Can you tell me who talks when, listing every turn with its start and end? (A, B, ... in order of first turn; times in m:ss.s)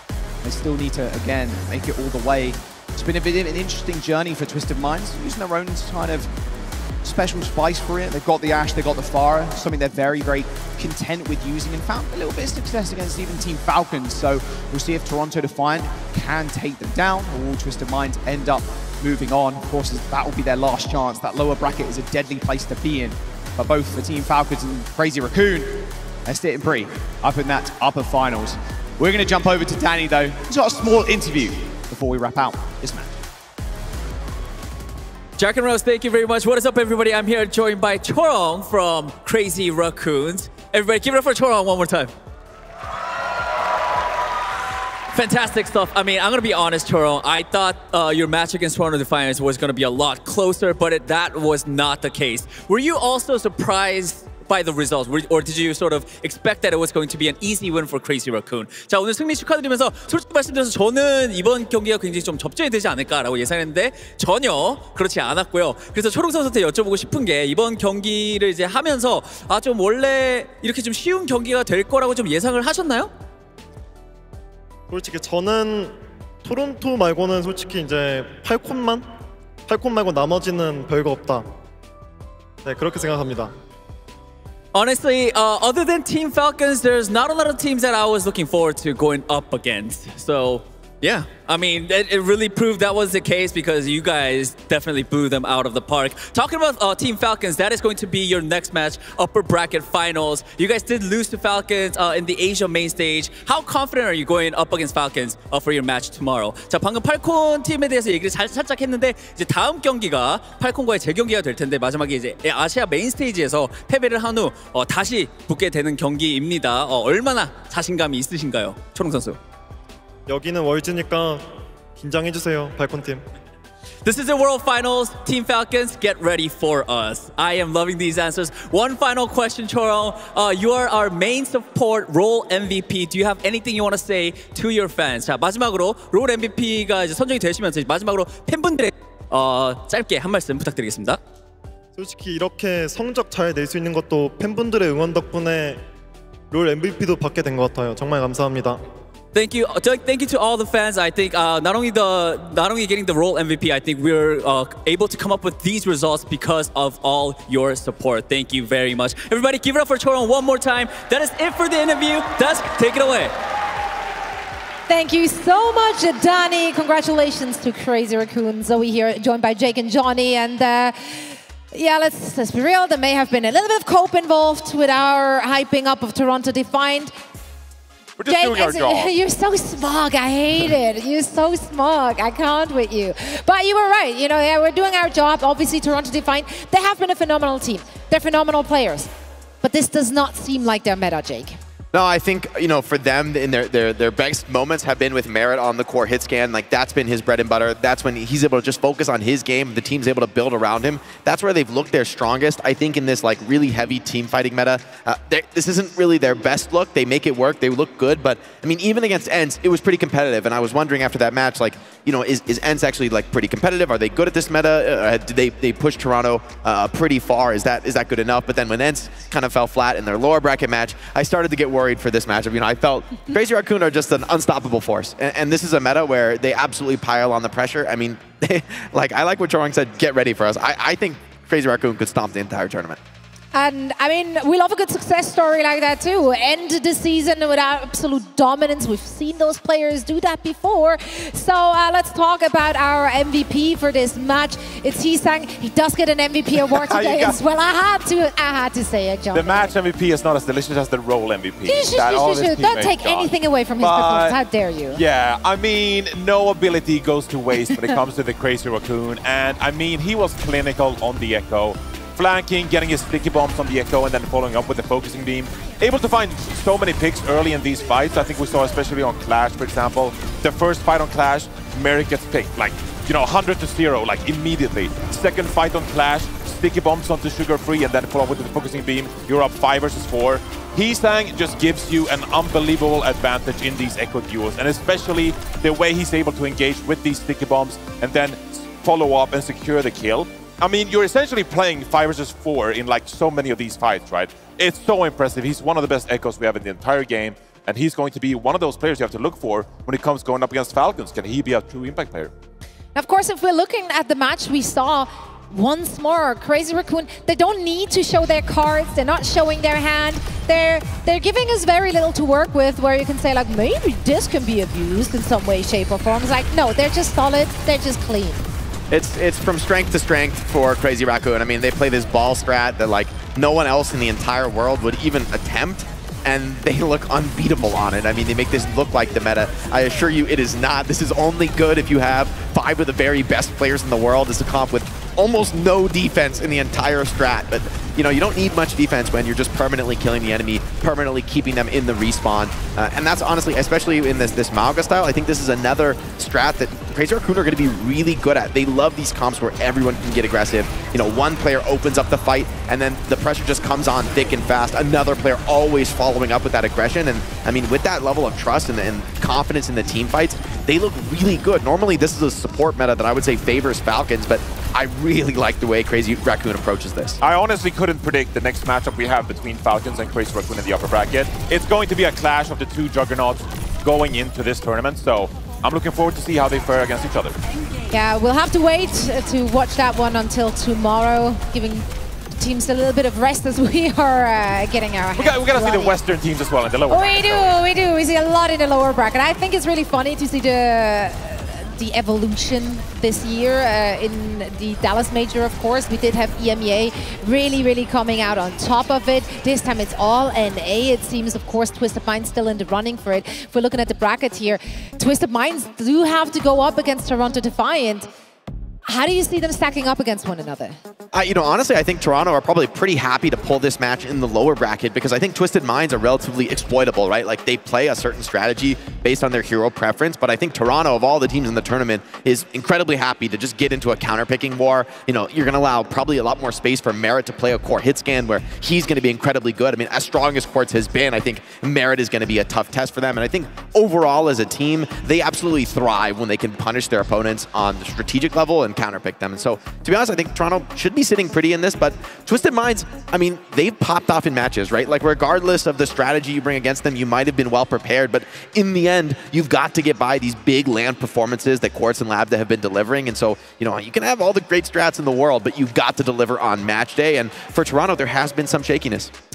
0:00.4-0:06.3 A
0:07.0-0:33.2 A
0:35.4-0:42.1 B
0:45.1-1:13.1 B
1:14.9-1:19.1 C
1:19.7-1:21.5 C
1:22.6-1:23.5 C
1:24.7-1:59.4 B
2:00.3-2:01.5 C
2:02.0-2:03.2 C
2:04.0-2:21.2 B
2:22.0-2:25.8 C
2:26.5-2:28.8 C
2:29.3-2:43.3 B
2:44.9-2:57.1 D
2:58.2-2:59.1 E
2:58.3-3:09.1 D
3:09.6-3:11.6 D
3:11.9-3:53.0 F
3:53.5-4:09.7 D
4:06.7-4:07.4 E
4:09.3-4:14.4 E
4:11.6-4:15.0 D
4:14.9-5:02.3 E
4:17.6-4:18.0 D
5:03.0-5:18.4 D
5:18.9-6:07.2 F
6:07.2-6:17.4 E
6:17.9-6:26.0 D
6:25.2-6:27.6 E
6:26.9-6:48.1 D
6:48.9-6:50.8 D
6:51.1-7:39.1 F